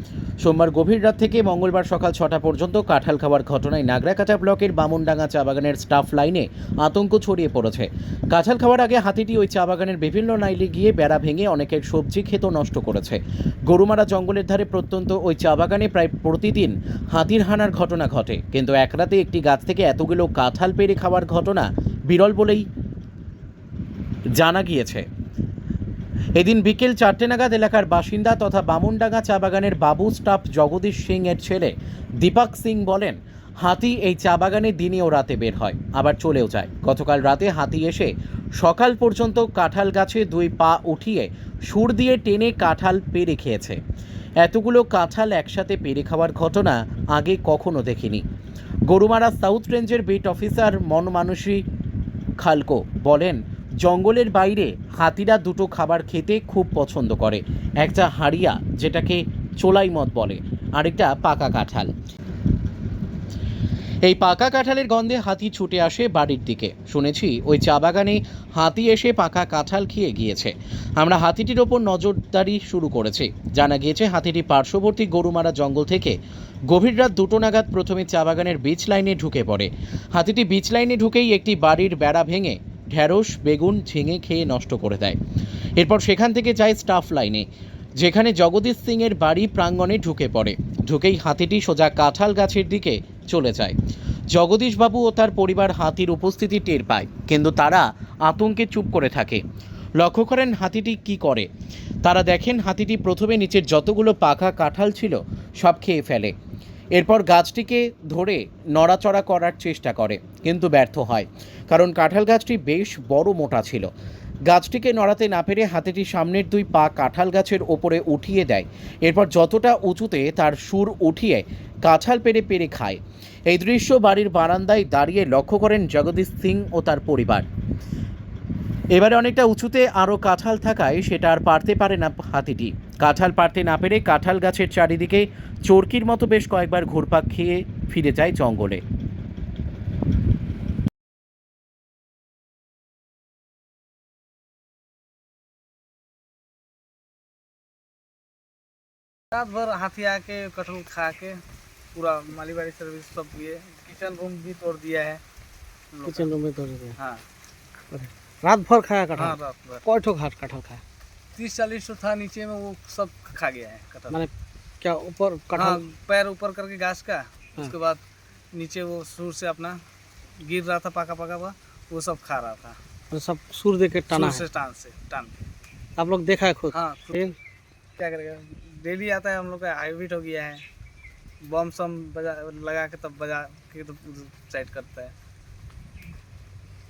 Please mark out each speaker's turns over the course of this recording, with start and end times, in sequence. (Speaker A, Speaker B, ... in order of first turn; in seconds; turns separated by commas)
Speaker A: 0.4-22.7, Speaker A: 24.4-25.1, Speaker A: 26.4-43.8, Speaker A: 44.4-48.2, Speaker A: 48.9-51.6, Speaker A: 52.4-61.9, Speaker A: 64.0-85.2, Speaker A: 85.8-93.8, Speaker A: 94.3-99.4, Speaker A: 100.0-101.5, Speaker A: 102.0-106.3, Speaker A: 106.9-113.9, Speaker A: 114.5-127.5, Speaker A: 128.9-138.8, Speaker B: 149.3-151.4, Speaker B: 151.9-155.2, Speaker B: 155.9-156.3, Speaker C: 156.1-157.0, Speaker B: 157.0-157.2, Speaker C: 157.9-160.8, Speaker B: 159.2-159.8, Speaker B: 161.3-164.2, Speaker C: 164.1-165.8, Speaker B: 165.5-168.0, Speaker B: 168.5-169.8, Speaker B: 170.4-172.8, Speaker C: 173.1-174.4, Speaker B: 174.1-175.3, Speaker C: 176.0-177.3, Speaker B: 176.7-177.3, Speaker B: 178.0-180.7, Speaker B: 181.4-185.1